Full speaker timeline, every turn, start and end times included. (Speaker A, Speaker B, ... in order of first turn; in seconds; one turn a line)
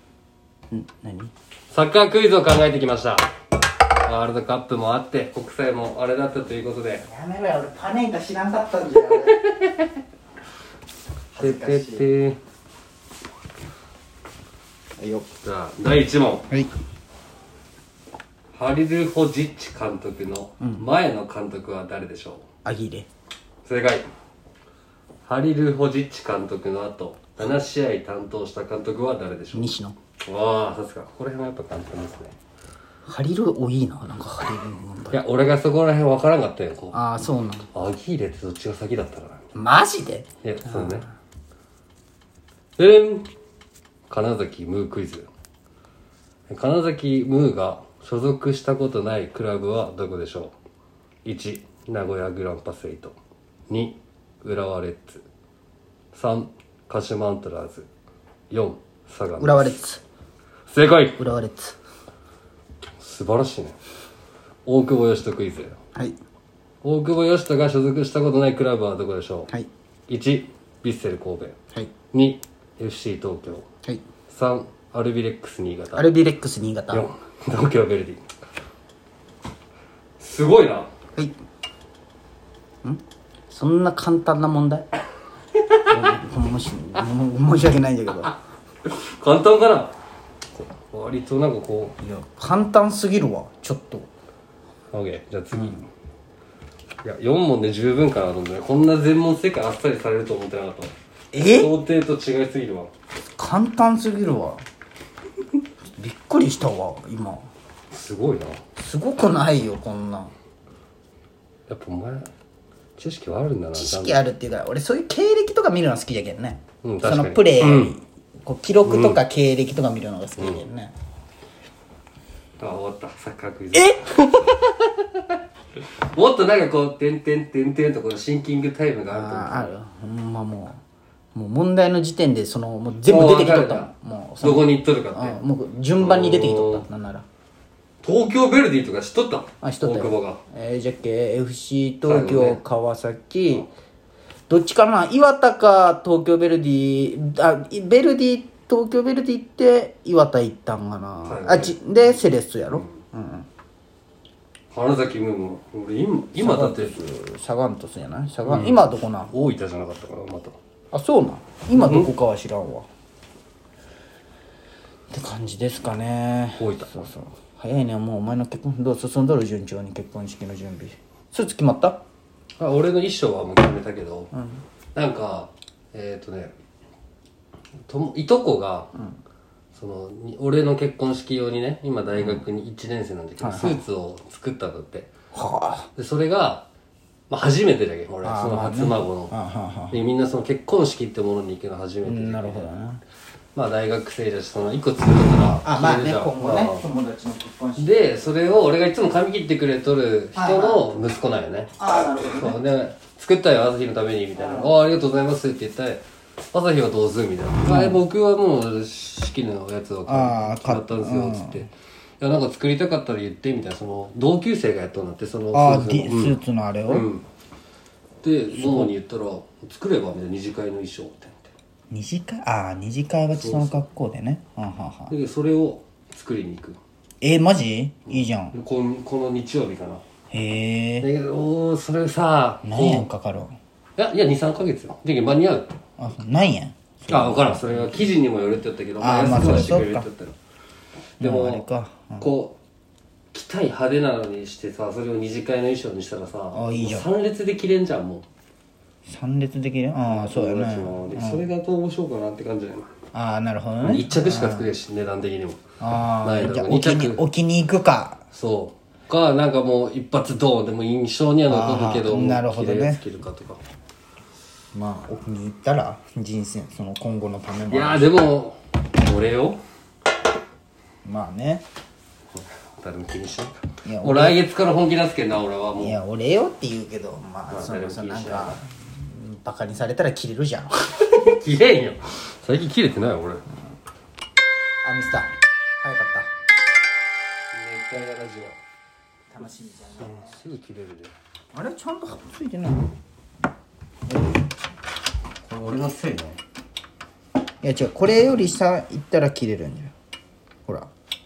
Speaker A: 0.7-1.3
Speaker B: 1.7-3.3
Speaker B: 4.0-7.0
Speaker A: 7.0-9.4
Speaker B: 9.3-9.9
Speaker A: 11.3-12.1
Speaker B: 11.3-12.4
Speaker A: 15.0-15.3
Speaker B: 15.4-16.5
Speaker B: 18.5-22.4
Speaker A: 20.6-20.9
Speaker A: 22.6-23.1
Speaker B: 23.6-24.1
Speaker B: 25.3-32.4
Speaker A: 29.5-30.0
Speaker A: 33.0-35.2
Speaker B: 35.1-37.0
Speaker A: 36.9-37.7
Speaker B: 37.7-39.5
Speaker A: 39.5-41.0
Speaker B: 40.4-41.1
Speaker B: 42.8-43.3
Speaker B: 44.1-45.3
Speaker B: 46.5-50.5
Speaker B: 51.2-53.1
Speaker B: 53.7-55.3
Speaker B: 56.1-57.9
Speaker B: 58.5-59.8
Speaker A: 59.4-60.0
Speaker B: 60.7-61.2
Speaker A: 61.2-61.8
Speaker B: 63.0-63.8
Speaker B: 64.7-65.8
Speaker B: 66.8-69.5
Speaker B: 70.1-71.6
Speaker B: 72.1-73.7
Speaker B: 74.3-76.1
Speaker A: 75.9-77.1
Speaker B: 76.9-78.4
Speaker B: 80.2-80.9
Speaker A: 82.8-84.9
Speaker A: 85.9-88.4
Speaker B: 85.9-86.2
Speaker B: 88.8-90.0
Speaker B: 90.7-92.0
Speaker A: 92.0-94.1
Speaker B: 94.9-95.8
Speaker A: 95.5-95.9
Speaker B: 97.0-102.9
Speaker A: 101.3-101.7
Speaker A: 103.4-104.6
Speaker A: 106.0-107.5
Speaker B: 107.9-108.6
Speaker A: 108.8-110.3
Speaker B: 111.7-112.3
Speaker B: 113.0-114.2
Speaker A: 113.7-120.9
Speaker B: 116.8-118.0
Speaker B: 118.8-119.2
Speaker B: 120.4-120.6
Speaker B: 122.6-125.2
Speaker A: 123.8-124.5
Speaker B: 126.0-129.7
Speaker A: 129.1-130.8
Speaker A: 131.3-137.2
Speaker B: 133.0-133.9
Speaker B: 134.4-135.4
Speaker B: 136.0-136.9
Speaker B: 138.0-140.4
Speaker A: 139.6-143.7
Speaker B: 142.1-142.6
Speaker A: 144.5-153.5
Speaker B: 151.2-151.8
Speaker B: 152.7-153.0
Speaker B: 154.7-157.0
Speaker A: 156.4-159.3
Speaker B: 158.4-160.6
Speaker A: 160.9-162.9
Speaker B: 161.7-162.1
Speaker A: 165.1-172.0
Speaker B: 166.6-167.1
Speaker B: 172.6-174.3
Speaker A: 174.3-174.6
Speaker B: 174.9-176.5
Speaker B: 177.9-178.9
Speaker B: 179.8-185.1
Speaker A: 182.2-182.4
Speaker A: 183.4-183.8
Speaker A: 185.3-185.9
Speaker B: 186.0-186.7
Speaker B: 187.3-189.3
Speaker A: 188.2-190.0
Speaker B: 189.9-192.7
Speaker A: 192.0-193.0
Speaker B: 193.6-196.9
Speaker A: 195.6-198.2
Speaker B: 197.8-217.3
Speaker A: 200.3-200.9
Speaker A: 201.8-202.6
Speaker A: 207.6-208.0
Speaker A: 210.1-211.7
Speaker A: 215.5-217.1
Speaker B: 218.2-221.5
Speaker A: 218.5-218.9
Speaker A: 221.9-225.1
Speaker B: 223.3-223.9
Speaker B: 225.1-226.8
Speaker A: 227.2-228.6
Speaker B: 228.1-230.0
Speaker A: 230.3-231.1
Speaker B: 231.0-233.1
Speaker A: 232.6-233.6
Speaker B: 234.0-235.8
Speaker A: 236.0-238.0
Speaker B: 237.1-240.4
Speaker A: 239.0-240.1
Speaker A: 241.2-242.3
Speaker B: 241.2-241.7
Speaker B: 242.2-242.6
Speaker B: 243.3-248.3
Speaker A: 246.5-247.1
Speaker A: 249.1-251.5
Speaker B: 250.0-252.9
Speaker A: 253.1-254.7
Speaker B: 253.8-255.6
Speaker A: 255.8-258.2
Speaker B: 256.2-257.2
Speaker B: 258.3-263.6
Speaker A: 261.5-263.0
Speaker A: 264.7-268.1
Speaker B: 267.7-269.6
Speaker A: 271.0-271.6
Speaker B: 272.4-276.0
Speaker A: 273.9-274.4
Speaker A: 275.8-280.9
Speaker B: 277.5-278.6
Speaker B: 281.0-283.4
Speaker A: 284.8-286.3
Speaker B: 287.5-288.6
Speaker A: 289.3-290.4
Speaker B: 290.0-291.1
Speaker A: 291.5-292.9
Speaker A: 294.1-294.4
Speaker B: 295.4-296.4
Speaker A: 297.6-299.9